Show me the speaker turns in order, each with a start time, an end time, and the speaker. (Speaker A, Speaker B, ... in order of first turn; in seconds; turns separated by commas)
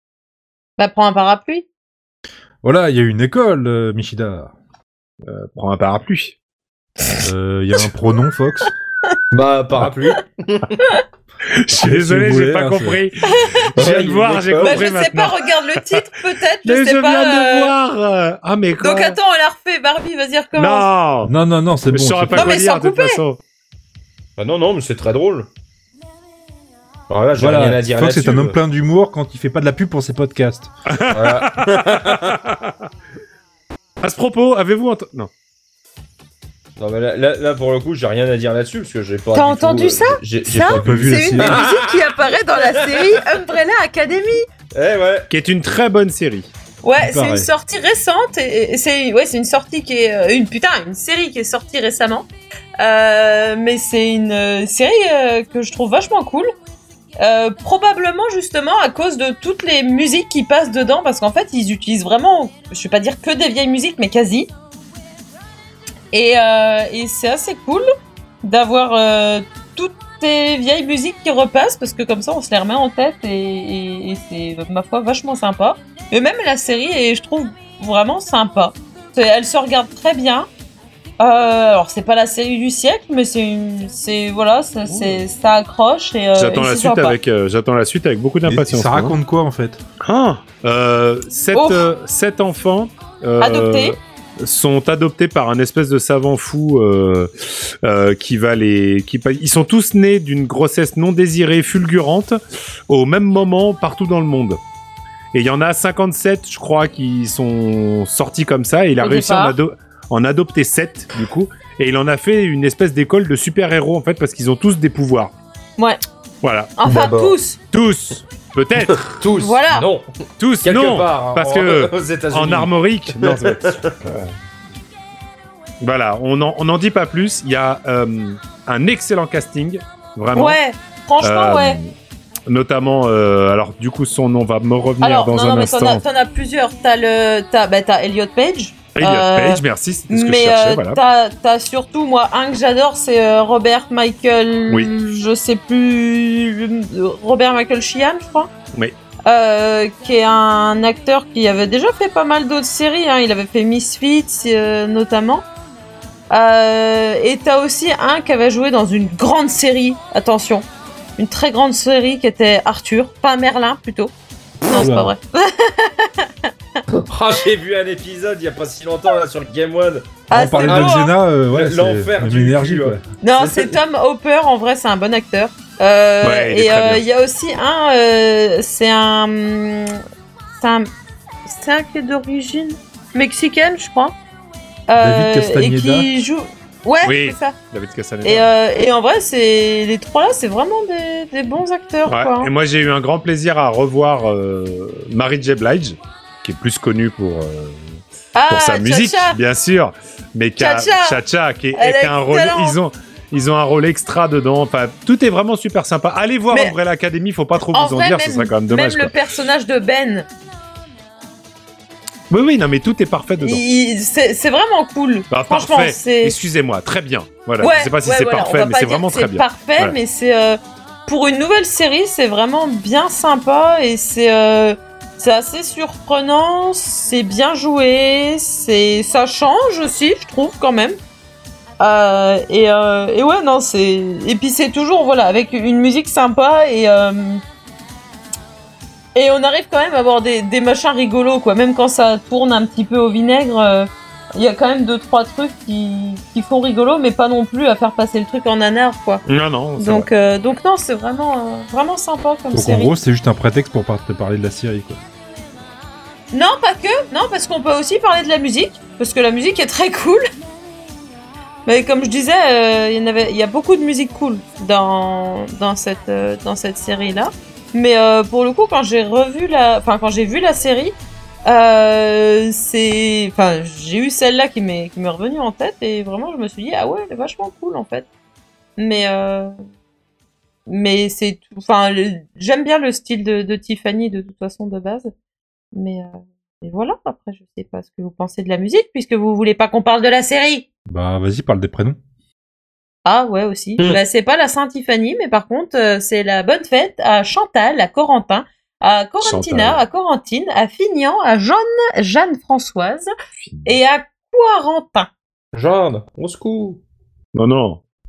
Speaker A: 0.8-1.7, Speaker B: 2.6-4.5, Speaker C: 5.3-6.4, Speaker B: 7.2-8.7, Speaker D: 9.3-10.8, Speaker C: 11.5-15.4, Speaker B: 11.7-13.0, Speaker A: 13.3-13.7, Speaker D: 13.8-14.8, Speaker A: 14.6-17.8, Speaker C: 16.6-19.2, Speaker A: 18.8-20.9, Speaker C: 20.6-21.3, Speaker B: 21.2-22.6, Speaker C: 21.9-23.4, Speaker A: 22.3-23.2, Speaker D: 24.4-25.5, Speaker D: 27.1-28.6, Speaker B: 27.4-30.7, Speaker C: 30.9-32.7, Speaker D: 31.1-32.3, Speaker C: 34.0-35.3, Speaker D: 36.8-43.2, Speaker A: 39.3-44.5, Speaker B: 40.6-41.6, Speaker D: 44.7-45.3, Speaker C: 45.3-46.5, Speaker A: 46.8-52.3, Speaker B: 47.0-47.5, Speaker A: 52.8-56.5, Speaker A: 57.2-64.5, Speaker A: 66.1-67.8, Speaker A: 68.4-80.5, Speaker A: 81.2-87.2, Speaker C: 84.9-85.2, Speaker C: 86.3-89.2, Speaker B: 88.5-89.8, Speaker C: 90.0-97.3, Speaker A: 91.5-91.9, Speaker A: 93.4-94.0, Speaker C: 97.8-102.4, Speaker C: 102.9-104.6, Speaker C: 105.3-115.3, Speaker A: 109.0-109.6, Speaker C: 116.4-116.7, Speaker A: 116.8-117.6, Speaker D: 116.9-117.4, Speaker C: 117.7-119.3, Speaker D: 119.1-120.1, Speaker A: 119.4-119.9, Speaker C: 120.4-124.3, Speaker D: 120.6-123.9, Speaker C: 125.8-130.6, Speaker A: 130.3-131.8, Speaker C: 131.2-131.9, Speaker C: 132.5-136.0, Speaker A: 135.0-148.5, Speaker C: 138.9-141.0, Speaker A: 149.3-155.5, Speaker A: 156.3-160.7, Speaker A: 161.2-166.3, Speaker B: 164.7-165.1, Speaker D: 167.1-170.1, Speaker A: 170.3-171.2, Speaker B: 170.3-173.0, Speaker D: 170.6-173.8, Speaker A: 173.2-180.0, Speaker C: 176.2-177.0, Speaker A: 180.6-180.9, Speaker A: 181.5-184.2, Speaker A: 184.9-187.6, Speaker B: 185.0-186.1, Speaker C: 187.0-188.5, Speaker A: 188.2-192.5, Speaker C: 192.1-197.8, Speaker A: 198.3-199.4, Speaker C: 198.5-209.1, Speaker A: 200.6-201.2, Speaker A: 201.8-202.8, Speaker A: 207.7-210.3, Speaker C: 212.3-213.6, Speaker A: 213.4-216.4, Speaker C: 215.3-219.9, Speaker A: 217.6-231.0, Speaker A: 231.8-237.4, Speaker A: 239.2-249.2, Speaker C: 249.3-250.1, Speaker A: 249.8-253.0, Speaker B: 252.5-255.0, Speaker A: 256.3-260.2, Speaker A: 261.7-278.1, Speaker A: 278.8-279.5, Speaker A: 280.7-285.1, Speaker A: 285.7-286.1, Speaker A: 286.6-290.7, Speaker B: 290.9-292.0, Speaker A: 293.1-303.1, Speaker C: 299.2-299.8, Speaker C: 303.4-303.8, Speaker A: 303.7-305.1, Speaker D: 305.5-306.8, Speaker C: 307.4-307.8